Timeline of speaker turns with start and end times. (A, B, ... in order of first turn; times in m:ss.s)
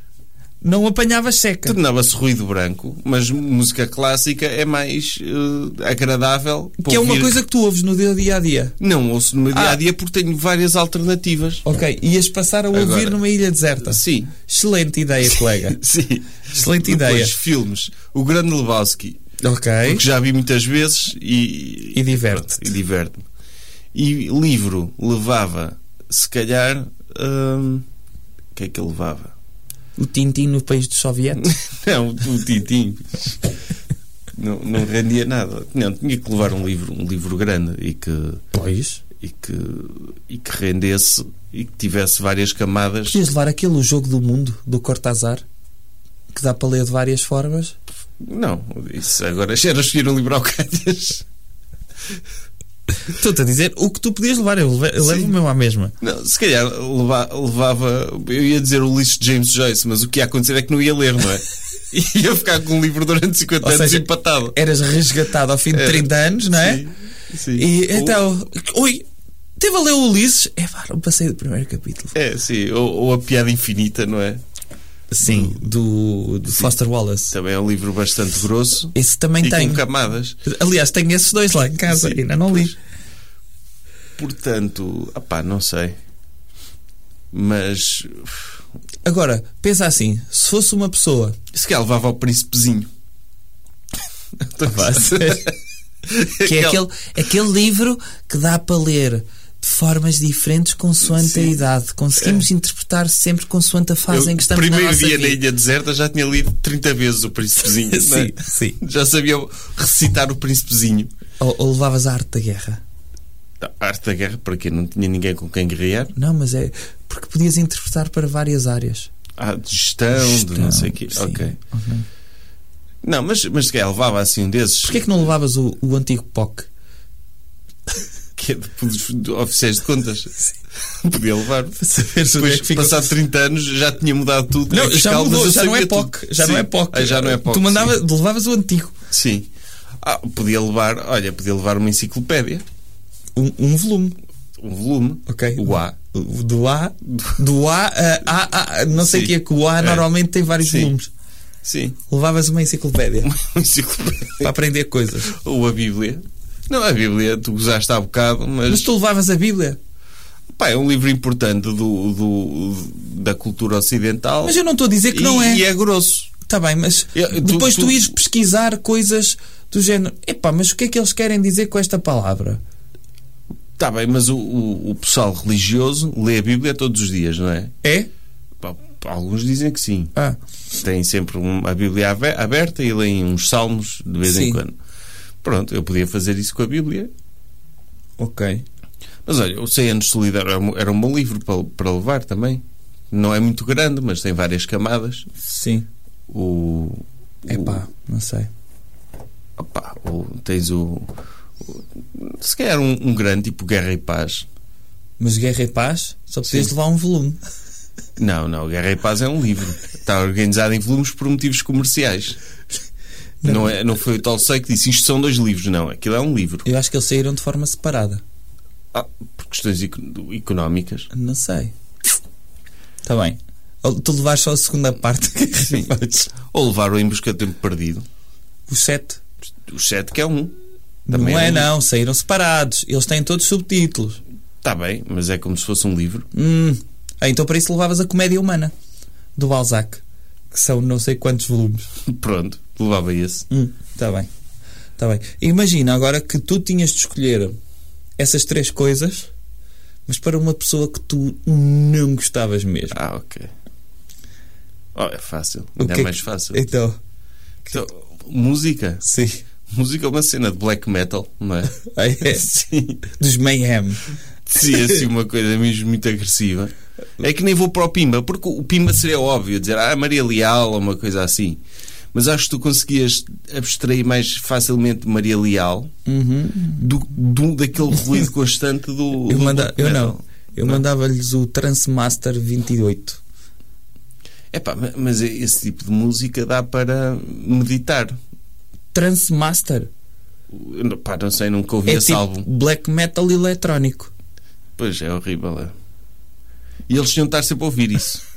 0:00.6-0:01.8 A
0:01.7-0:07.4 B
0:06.8-0:08.8 A
0:08.8-0:11.6 B
0:09.5-0:09.8 A
0:11.6-0:15.8 A
0:12.7-0:13.2 B
0:13.8-0:14.4 B
0:15.3-0:19.2 B
0:16.5-0:17.3 A
0:19.4-0:20.0 A
0:19.8-0:23.2 B
0:21.9-0:22.7 A
0:23.9-0:27.8 B
0:28.6-0:29.3 B
0:30.0-0:31.5 A
0:31.4-0:33.5 B
0:34.4-0:38.4 B
0:38.5-0:39.0 A
0:39.2-0:43.2 B
0:43.1-0:45.4 A
0:46.3-0:47.8 A
0:48.2-0:51.2 B
0:53.1-0:55.9 A
0:55.0-0:55.4 B
0:56.0-1:04.6 B
1:03.6-1:06.8 A
1:05.7-1:08.2 B
1:07.5-1:09.0 A
1:09.6-1:12.2 A
1:12.2-1:14.4 B
1:15.1-1:17.3 A
1:15.2-1:15.6 B
1:16.5-1:16.8 B
1:17.3-1:20.4 B
1:18.9-1:19.8 A
1:20.4-1:22.8 A
1:21.9-1:22.7 B
1:24.2-1:26.0 B
1:27.3-1:28.6 B
1:29.0-1:31.4 A
1:31.5-1:32.9 B
1:34.5-1:35.6 B
1:34.6-1:35.5 A
1:36.1-1:36.8 B
1:36.4-1:45.4 A
1:41.0-1:41.6 B
1:42.2-1:42.4 B
1:44.1-1:51.1 B
1:47.7-1:48.8 A
1:51.4-1:52.8 A
1:53.6-1:56.1 B
1:56.1-1:59.1 A
1:59.4-2:01.6 B
2:00.2-2:02.1 A
2:03.0-2:05.1 B
2:04.8-2:06.7 A
2:08.4-2:10.4 B
2:11.0-2:18.0 B
2:11.8-2:13.1 A
2:14.7-2:19.0 A
2:19.1-2:19.5 B
2:20.0-2:22.6 B
2:23.4-2:24.2 A
2:24.6-2:26.0 B
2:25.3-2:31.1 A
2:27.1-2:27.4 B
2:28.9-2:30.1 B
2:30.6-2:30.9 B
2:31.6-2:32.0 B
2:32.1-2:33.3 A
2:33.2-2:34.5 B
2:34.4-2:35.3 A
2:35.3-2:38.9 B
2:38.7-2:39.8 A
2:40.5-2:46.3 B
2:44.4-2:45.6 A
2:46.5-2:52.6 A
2:47.2-2:48.1 B
2:53.8-2:57.8 B
2:57.8-2:58.1 A
2:58.6-3:00.1 B
3:00.8-3:04.8 B
3:04.2-3:04.6 A
3:05.4-3:07.1 B
3:08.2-3:08.6 A
3:09.3-3:15.3 B
3:15.4-3:15.9 A
3:16.3-3:17.8 B
3:17.5-3:18.5 A
3:19.6-3:21.1 B
3:21.6-3:24.5 B
3:25.2-3:27.4 A
3:26.5-3:26.7 B
3:28.2-3:32.4 B
3:33.4-3:33.8 A
3:33.4-3:36.7 B
3:36.6-3:38.2 A
3:38.9-3:41.1 B
3:41.1-3:41.7 A
3:43.0-3:46.3 A
3:45.6-3:48.1 B
3:48.7-3:49.2 A
3:49.7-3:50.5 B
3:51.1-3:54.2 A
3:51.1-3:51.7 B
3:54.6-3:56.3 B
3:56.3-3:58.7 A
3:59.4-4:01.9 A
4:02.1-4:03.5 B
4:03.5-4:04.3 A
4:05.0-4:07.6 A
4:08.2-4:09.3 A
4:10.1-4:13.0 A
4:12.9-4:13.5 B
4:15.0-4:16.7 B
4:15.8-4:17.0 A
4:17.7-4:19.0 B
4:19.0-4:19.4 A
4:19.7-4:23.0 B
4:21.8-4:22.4 A
4:23.1-4:24.1 A
4:24.5-4:31.6 B
4:24.6-4:24.9 A
4:32.1-4:35.9 B
4:36.1-4:36.9 A
4:36.8-4:40.8 B
4:39.3-4:43.2 A
4:44.5-4:48.2 B
4:48.9-4:49.9 A
4:50.5-4:52.5 B
4:51.9-4:54.1 A
4:54.8-4:55.7 B
4:56.9-4:58.2 B